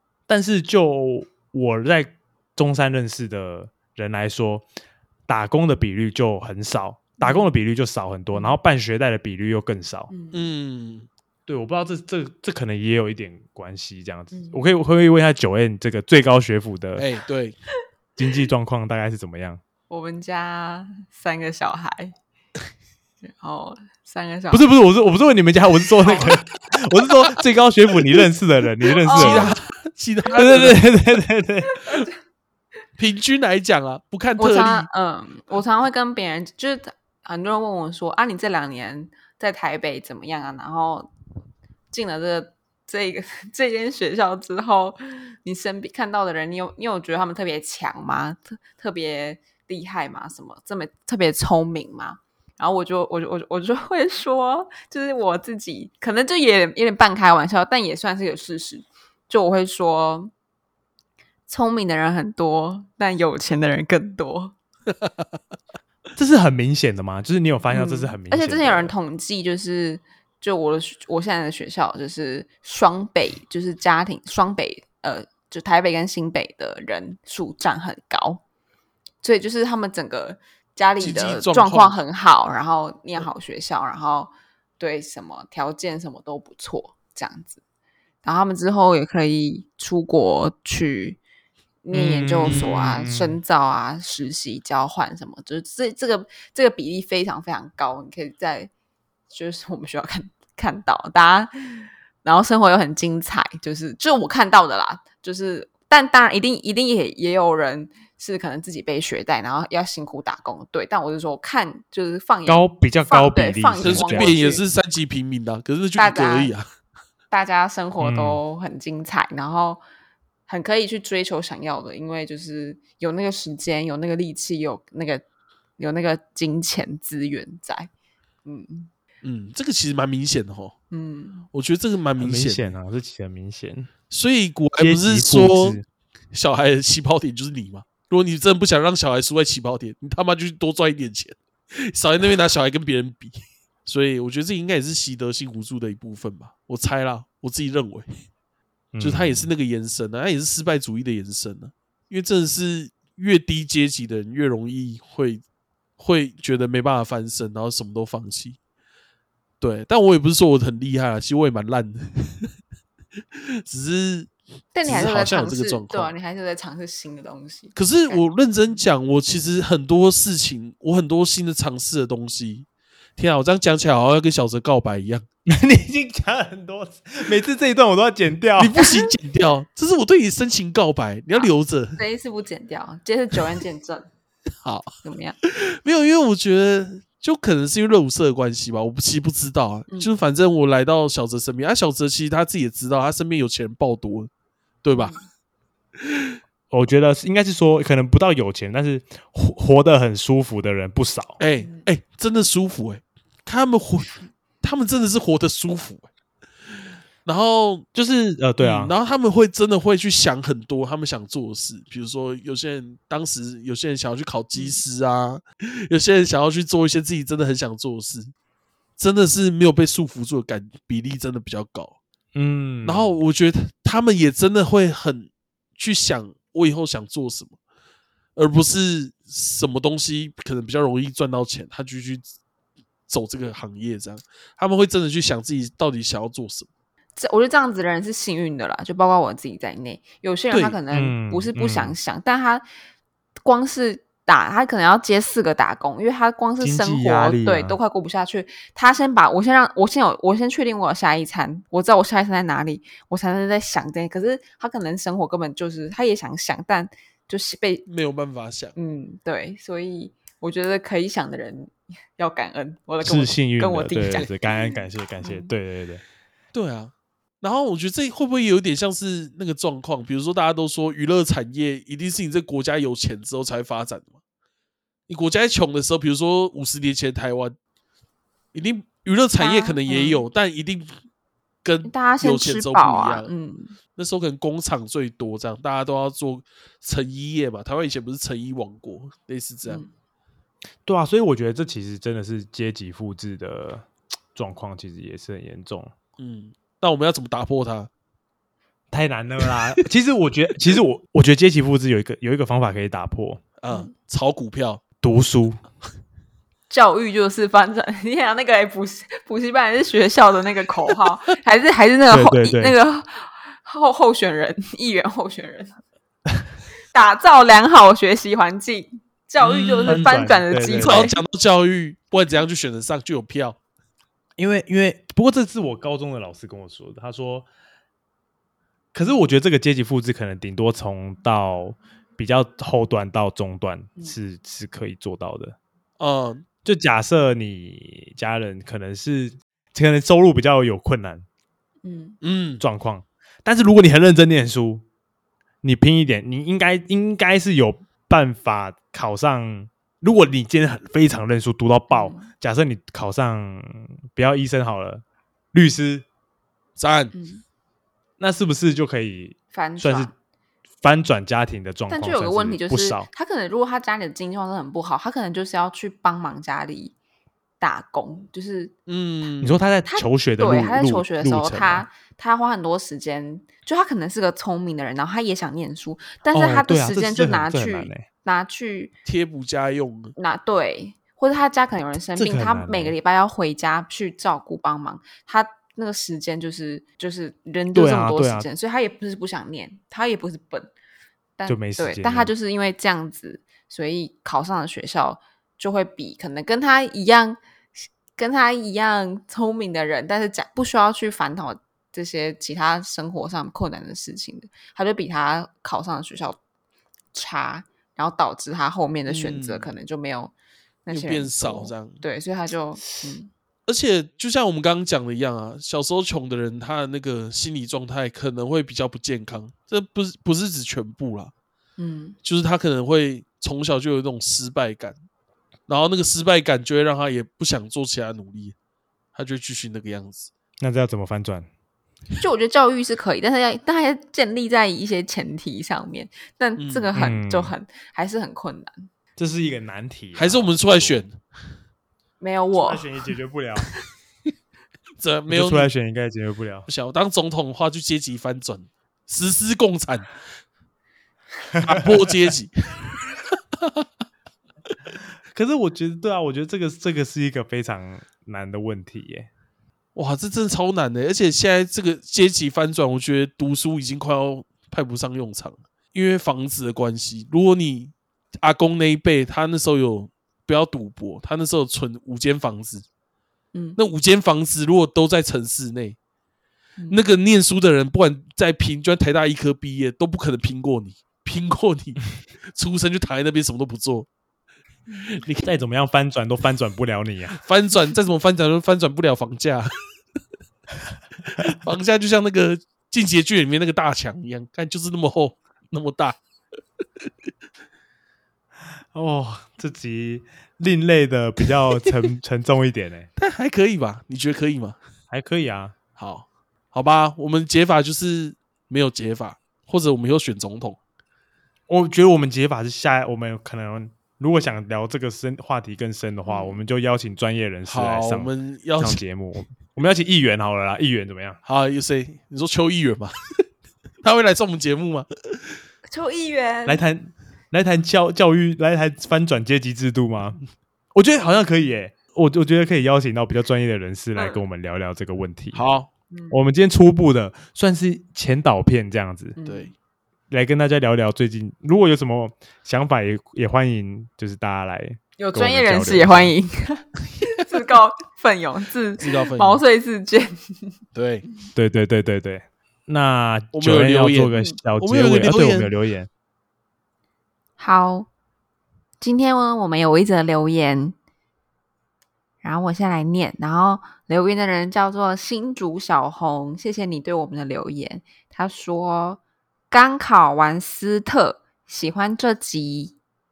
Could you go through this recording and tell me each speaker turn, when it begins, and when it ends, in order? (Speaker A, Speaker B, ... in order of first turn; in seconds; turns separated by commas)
Speaker A: 0.3-4.7, Speaker A: 5.3-10.1, Speaker B: 7.2-7.5, Speaker B: 8.3-8.6, Speaker B: 10.1-10.5, Speaker C: 10.3-11.1, Speaker A: 11.5-17.1, Speaker B: 14.3-14.6, Speaker C: 17.0-17.6, Speaker A: 18.2-19.6, Speaker B: 19.9-22.2, Speaker B: 23.2-24.7, Speaker A: 24.5-29.5, Speaker B: 26.1-26.3, Speaker B: 29.0-29.6, Speaker C: 29.2-30.8, Speaker A: 30.3-31.8, Speaker B: 31.7-32.1, Speaker C: 33.0-34.9, Speaker B: 34.4-41.1, Speaker B: 41.9-60.3, Speaker B: 61.5-64.5, Speaker A: 66.2-68.9, Speaker B: 67.7-78.4, Speaker B: 79.2-87.6, Speaker C: 81.0-82.0, Speaker B: 88.2-91.2, Speaker B: 91.8-98.7, Speaker A: 91.9-93.4, Speaker C: 92.5-92.7, Speaker B: 99.3-114.6, Speaker A: 112.5-114.3, Speaker C: 113.8-116.7, Speaker B: 116.0-116.5, Speaker B: 117.3-119.8, Speaker A: 118.0-118.4, Speaker B: 120.5-125.2, Speaker B: 125.8-127.9, Speaker B: 128.4-128.9, Speaker C: 129.2-130.8, Speaker B: 130.9-131.5, Speaker C: 131.5-132.8, Speaker A: 132.2-133.9, Speaker C: 134.1-135.8, Speaker A: 134.8-135.8, Speaker C: 136.3-148.1, Speaker A: 148.9-149.5, Speaker C: 149.0-155.4, Speaker C: 156.0-158.6, Speaker C: 159.6-162.5, Speaker C: 163.3-164.3, Speaker B: 164.7-168.8, Speaker C: 164.8-166.1, Speaker C: 167.8-172.7, Speaker C: 173.2-175.2, Speaker A: 175.5-178.8, Speaker C: 178.6-182.0, Speaker B: 178.8-179.1, Speaker B: 181.3-184.1, Speaker C: 184.6-194.3, Speaker B: 185.0-185.4, Speaker C: 194.8-195.1, Speaker B: 194.9-195.3, Speaker C: 196.0-196.4, Speaker A: 196.7-201.4, Speaker C: 201.4-206.1, Speaker B: 201.6-201.9, Speaker C: 207.2-207.9, Speaker A: 207.9-208.9, Speaker C: 208.6-218.3, Speaker B: 214.5-214.8, Speaker C: 219.0-222.0, Speaker A: 222.3-223.1, Speaker C: 222.8-227.6, Speaker C: 228.4-232.3, Speaker C: 233.1-236.7, Speaker B: 237.2-242.6, Speaker C: 240.5-240.8, Speaker A: 240.9-242.0, Speaker B: 243.4-257.9, Speaker A: 246.6-247.8, Speaker C: 257.9-258.7, Speaker B: 258.8-265.5, Speaker A: 263.0-266.0, Speaker C: 266.5-274.1, Speaker C: 275.1-277.6, Speaker C: 278.5-280.9, Speaker B: 279.4-280.2, Speaker C: 281.6-283.3, Speaker B: 281.9-283.8, Speaker C: 284.0-289.8, Speaker B: 289.6-289.9, Speaker A: 290.9-295.9, Speaker C: 296.2-297.9, Speaker A: 298.9-303.4, Speaker C: 303.6-304.8, Speaker A: 305.0-305.6, Speaker B: 306.7-315.8, Speaker A: 312.1-312.8, Speaker B: 316.9-321.2, Speaker C: 319.4-320.1, Speaker A: 319.9-321.1, Speaker C: 320.8-323.6, Speaker A: 324.4-327.5, Speaker A: 328.9-335.6, Speaker C: 336.0-336.4, Speaker A: 336.6-341.2, Speaker B: 341.8-342.2, Speaker C: 342.2-342.6, Speaker A: 342.6-344.8, Speaker A: 345.6-356.1, Speaker B: 351.9-352.3, Speaker C: 356.8-357.1, Speaker B: 357.1-357.4, Speaker A: 358.2-360.1, Speaker B: 359.5-360.1, Speaker A: 360.8-363.1, Speaker B: 361.9-366.9, Speaker B: 367.6-368.7, Speaker C: 368.9-369.6, Speaker A: 369.4-371.9, Speaker B: 369.9-378.9, Speaker A: 376.3-378.1, Speaker C: 379.1-380.1, Speaker B: 380.2-390.7, Speaker A: 382.2-382.9, Speaker A: 387.7-388.5, Speaker B: 391.4-397.4, Speaker A: 391.5-392.3, Speaker B: 398.2-406.4, Speaker B: 407.1-410.3, Speaker C: 409.1-409.7, Speaker B: 410.9-413.3, Speaker C: 410.9-412.0, Speaker C: 413.7-421.3, Speaker B: 421.8-422.2, Speaker C: 422.2-425.0, Speaker C: 425.7-428.6, Speaker C: 429.1-430.3, Speaker A: 430.6-431.5, Speaker B: 432.2-438.9, Speaker C: 436.6-436.9, Speaker A: 436.9-437.5, Speaker A: 439.2-441.0, Speaker C: 440.1-441.2, Speaker B: 442.2-442.8, Speaker A: 442.6-443.7, Speaker C: 445.0-445.7, Speaker A: 445.3-446.7, Speaker C: 446.7-450.1, Speaker A: 451.6-451.9, Speaker C: 451.6-452.6, Speaker C: 453.5-453.9, Speaker A: 455.3-459.3, Speaker C: 459.9-472.9, Speaker C: 473.8-476.0, Speaker C: 476.9-484.1, Speaker C: 485.1-485.6, Speaker A: 485.4-487.4, Speaker C: 487.4-489.7, Speaker C: 491.3-496.2, Speaker A: 498.9-503.1, Speaker C: 503.2-504.8, Speaker A: 505.1-505.8, Speaker C: 506.0-510.8, Speaker A: 511.7-521.4, Speaker B: 516.3-516.6, Speaker C: 517.7-519.0, Speaker C: 521.5-523.5, Speaker C: 524.0-525.6, Speaker B: 525.9-526.8, Speaker A: 526.7-530.4, Speaker A: 531.0-535.8, Speaker B: 534.1-534.4, Speaker C: 535.5-535.9, Speaker B: 536.1-536.4, Speaker A: 536.3-539.4, Speaker B: 539.4-539.7, Speaker C: 539.5-539.7, Speaker A: 540.3-546.4, Speaker B: 545.2-550.7, Speaker C: 549.0-549.6, Speaker C: 551.0-551.2, Speaker A: 551.5-556.1, Speaker C: 553.5-555.7, Speaker B: 557.6-558.1, Speaker B: 559.0-561.0, Speaker B: 562.4-573.0